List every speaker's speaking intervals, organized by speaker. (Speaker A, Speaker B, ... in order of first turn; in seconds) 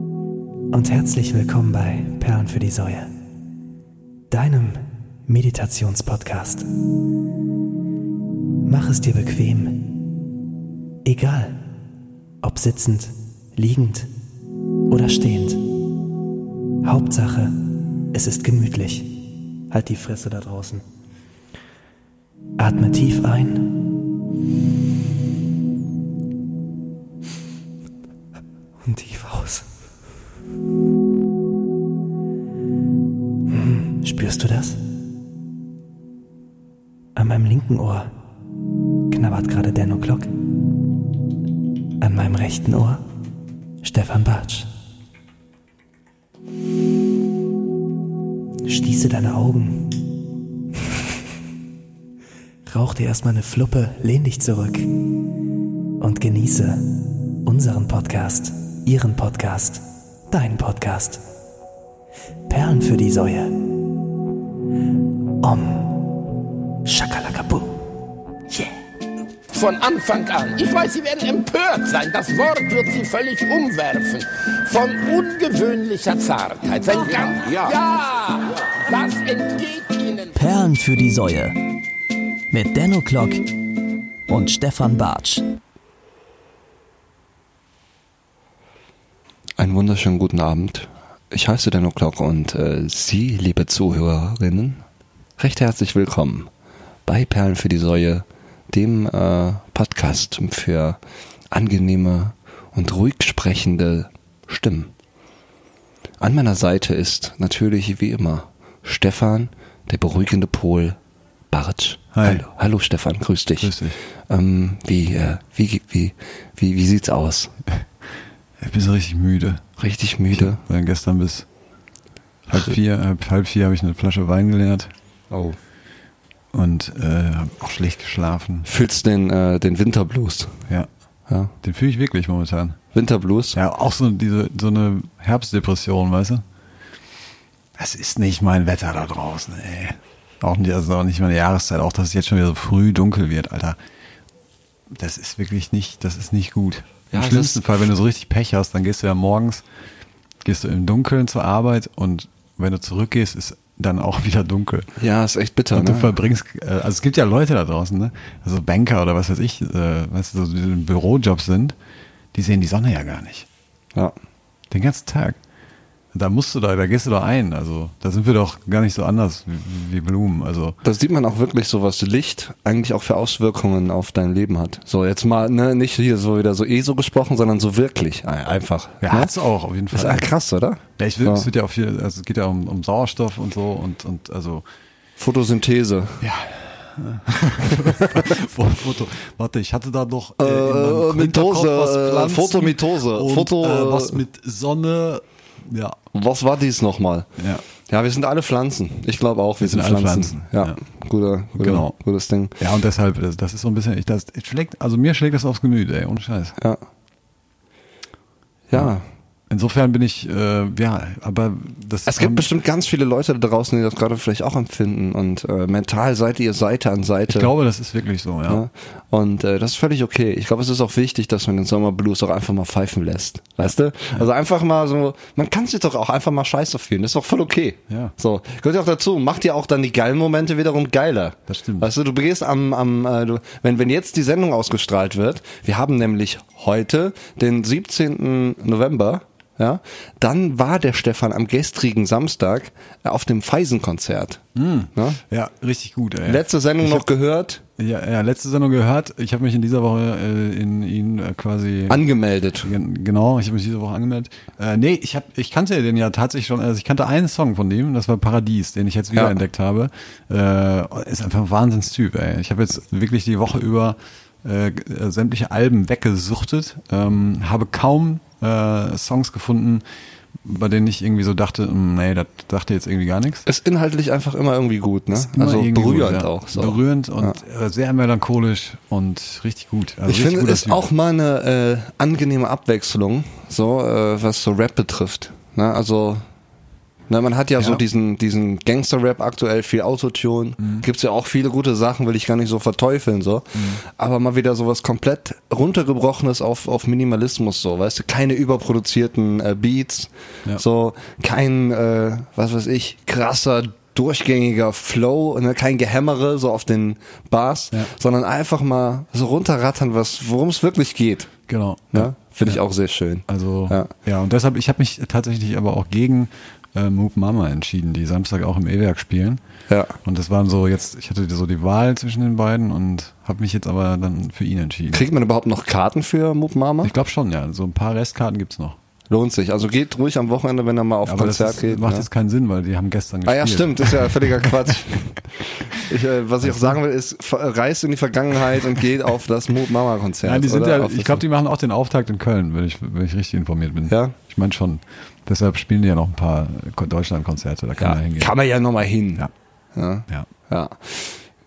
Speaker A: 0.7-3.1, 4.3-6.7, 8.6-10.0, 11.1-11.6, 12.4-14.1, 14.9-15.7, 16.8-20.8, 22.6-23.9, 28.8-29.7, 33.5-34.8, 37.2-38.1, 39.1-40.3, 42.0-43.0, 43.8-44.7, 48.6-50.0, 52.7-54.9, 56.0-56.8, 57.4-61.2, 62.5-63.5, 65.4-66.2, 66.8-67.8
Speaker B: 69.5-80.3
Speaker C: 80.3-81.5, 82.5-83.5, 84.3-85.4
Speaker D: 89.6-94.8, 95.4-96.5, 97.1-101.0, 101.5-104.9, 106.2-111.0, 111.5-113.7, 114.3-117.5, 119.8-120.6, 125.3-125.6, 128.7-130.6, 132.9-133.6, 147.1-147.7, 155.0-156.1, 170.8-179.3, 179.9-181.5, 185.2-186.2, 187.7-188.2, 190.4-194.2, 196.1-197.3, 197.9-202.6, 208.7-209.0, 212.1-217.5, 218.5-244.4, 246.2-247.6, 251.9-252.7, 273.5-277.4, 280.1-286.2, 287.1-311.3, 311.9-313.9, 319.7-319.9, 324.9-326.9, 329.1-332.1, 333.3-335.2, 335.8-341.2, 343.9-344.1, 347.8-351.2
Speaker E: 112.2-112.4, 113.6-114.0, 118.6-119.6, 120.3-121.5, 122.5-124.9, 126.5-128.7, 131.6-132.8, 133.6-136.4, 137.8-143.8, 144.9-149.6, 150.4-154.9, 155.7-161.8, 162.3-163.5, 164.7-165.4, 166.1-170.8, 179.0-180.2, 181.0-184.7, 186.2-196.0, 197.4-197.6, 199.6-200.8, 201.6-201.9, 202.6-206.6, 209.5-212.5, 217.3-218.6, 231.5-231.9, 244.6-247.0, 247.8-252.0, 252.6-269.8, 270.4-273.4, 275.1-280.9, 290.6-290.9, 293.6-293.8, 311.5-312.6, 313.3-319.4, 320.1-325.0, 326.8-328.8, 331.0-334.5, 336.4-336.7, 340.2-348.3